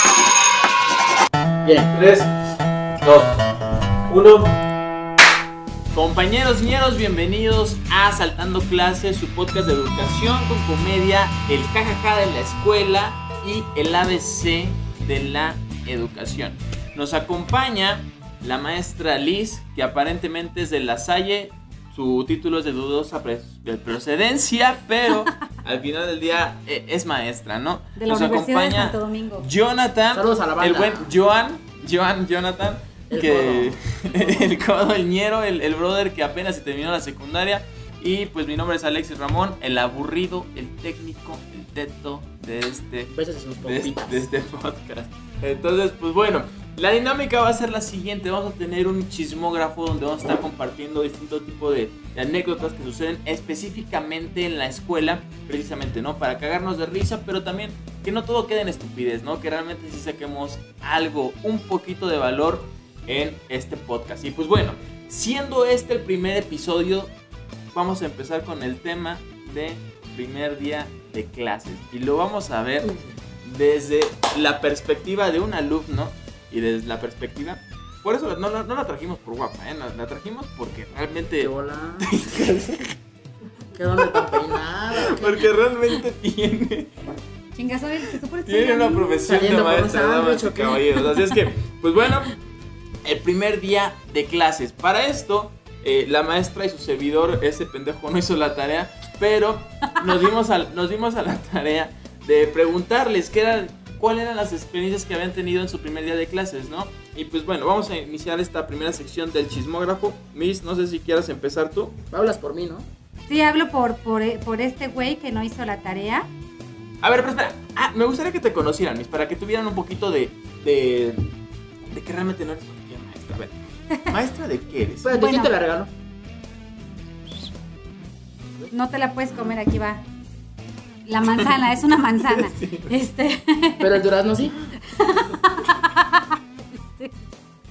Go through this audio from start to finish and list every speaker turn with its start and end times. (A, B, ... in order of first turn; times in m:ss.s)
0:01.6-0:01.9 A
0:01.9-0:02.3 B
0:03.0-0:03.4 B
0:04.1-0:04.5 B
0:05.9-1:07.1 B
0:28.0-0:29.5 C
0:30.1-0:31.1 A
0:33.1-0:34.5 A
0:43.1-0:44.3 A
1:07.7-1:23.0 B
1:21.4-1:22.1 A
1:23.8-1:25.4 A
1:24.0-1:26.9 B
1:27.5-1:29.2 C
1:28.5-1:32.4 B
1:29.2-1:30.9 A
1:33.0-1:52.0 B
1:52.1-1:52.9 A
1:53.3-1:56.3 C
1:57.0-2:01.3 B
2:01.9-2:05.2 B
2:05.0-2:05.9 A
2:05.1-2:05.5 C
2:08.7-2:10.0 C
2:11.0-2:14.0 C
2:12.3-2:12.9 B
2:13.8-2:14.6 A
2:14.8-2:17.3 C